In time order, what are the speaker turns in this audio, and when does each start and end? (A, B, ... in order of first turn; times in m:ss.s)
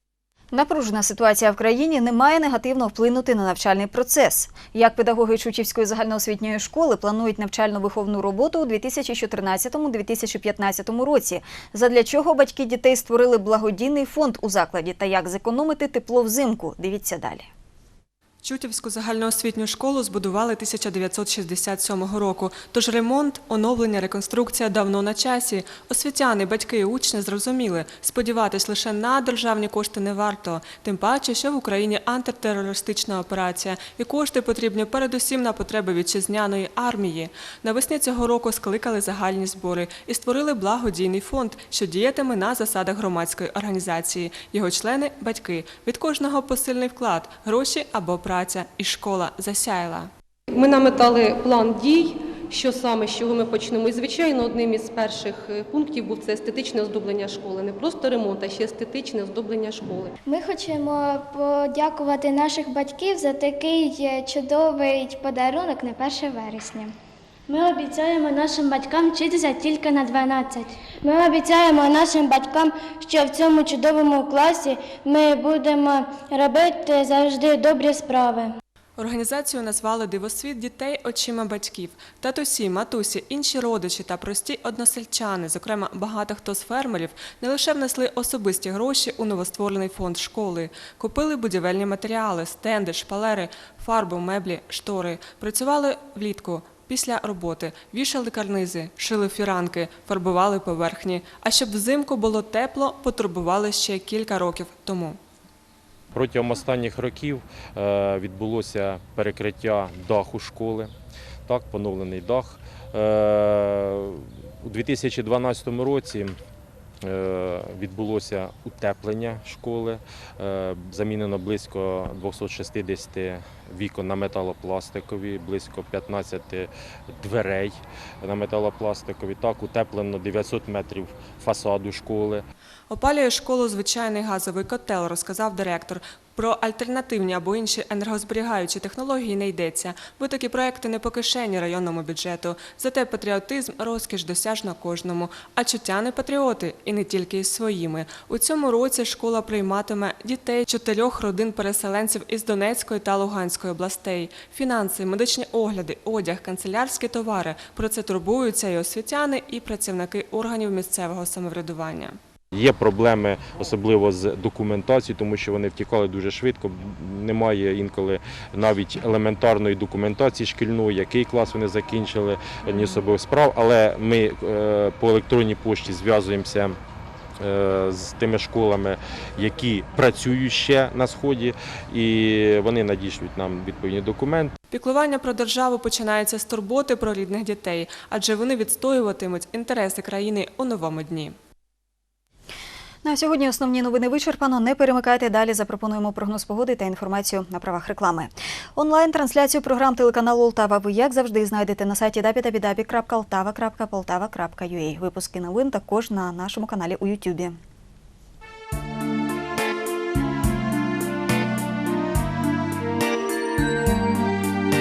0:00.5-0:17.5 A
0:18.4-0:50.1 B
0:50.5-1:00.1 C
1:00.3-1:06.9 D
1:01.9-1:04.0 C
1:07.5-1:18.5 D
1:07.5-1:10.5 C
1:11.1-1:12.6 C
1:13.1-1:14.6 C
1:15.2-1:18.1 C
1:19.0-1:45.2 B
1:46.1-1:50.9 E
1:51.5-1:56.4 E
1:57.0-2:12.4 E
2:12.9-2:42.2 B
2:42.5-2:56.8 E
2:57.4-3:04.6 E
3:04.7-3:11.4 B
3:13.0-3:27.6 A